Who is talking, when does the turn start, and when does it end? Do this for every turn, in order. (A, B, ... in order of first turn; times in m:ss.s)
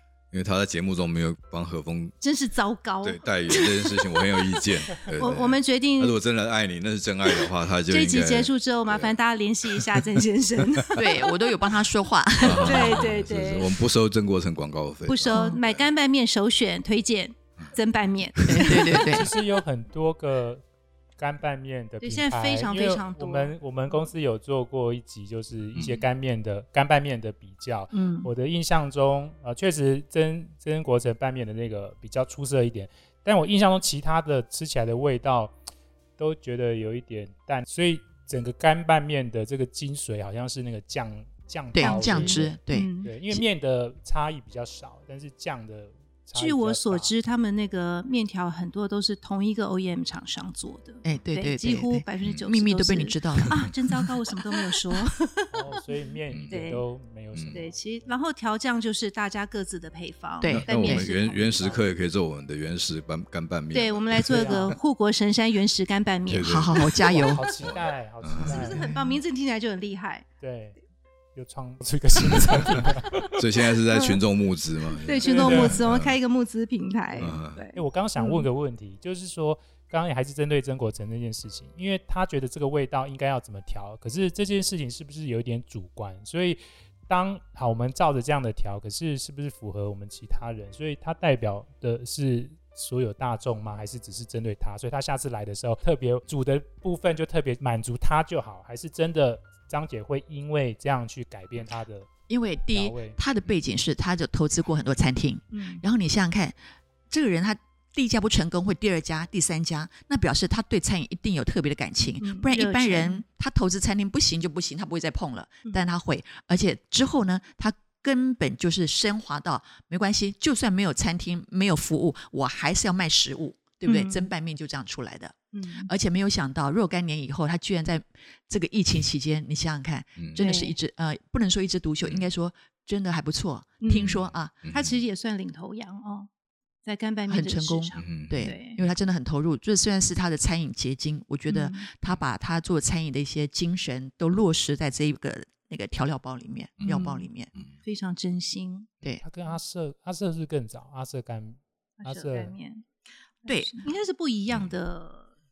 0:00.3-0:02.2 A
0:02.2-0:06.2 B
0:03.0-0:09.1 A
0:07.3-0:11.3 B
0:09.7-0:10.2 A
0:10.9-0:13.1 C
0:12.4-0:15.9 A
0:12.4-0:13.8 B
0:15.1-0:19.0 B
0:18.3-0:18.8 A
0:18.4-0:19.2 C
0:19.0-0:20.6 D
0:21.2-0:35.6 D
0:22.0-0:23.5 B
0:25.7-0:26.0 A
0:27.9-0:28.3 B
0:36.2-0:47.1 D
0:41.7-0:43.4 C
0:41.8-0:43.1 B
0:46.4-0:55.8 B
0:51.0-0:53.6 C
0:52.2-0:52.5 A
0:53.4-0:53.9 A
0:55.5-0:58.1 D
0:56.3-0:56.6 A
0:56.5-0:56.8 B
0:57.5-1:01.8 B
1:00.4-1:01.0 C
1:00.4-1:04.7 A
1:03.7-1:06.9 B
1:04.3-1:04.8 D
1:06.3-1:07.0 A
1:06.4-1:07.5 C
1:07.0-1:08.9 D
1:07.6-1:09.0 A
1:08.4-1:10.3 B
1:10.4-1:10.8 D
1:11.3-1:13.3 D
1:13.4-1:16.2 A
1:13.9-1:14.2 B
1:15.0-1:18.5 B
1:15.3-1:15.8 D
1:17.2-1:42.1 D
1:17.2-1:17.6 A
1:42.3-1:46.5 C
1:42.7-1:43.2 D
1:45.5-1:45.8 B
1:47.1-2:14.5 C
1:52.2-1:53.2 B
2:03.8-2:04.3 B
2:05.5-2:05.9 B
2:10.2-2:10.4 A
2:10.4-2:10.7 B
2:12.0-2:12.3 A
2:13.8-2:16.3 B
2:13.9-2:15.0 A
2:16.8-2:18.8 B
2:17.3-2:27.5 C
2:18.0-2:18.4 A
2:21.5-2:21.9 B
2:26.8-2:27.7 A
2:26.8-2:27.3 B
2:27.8-2:28.9 B
2:29.2-2:32.6 D
2:32.0-2:32.8 B
2:33.4-2:35.3 B
2:33.4-2:33.9 C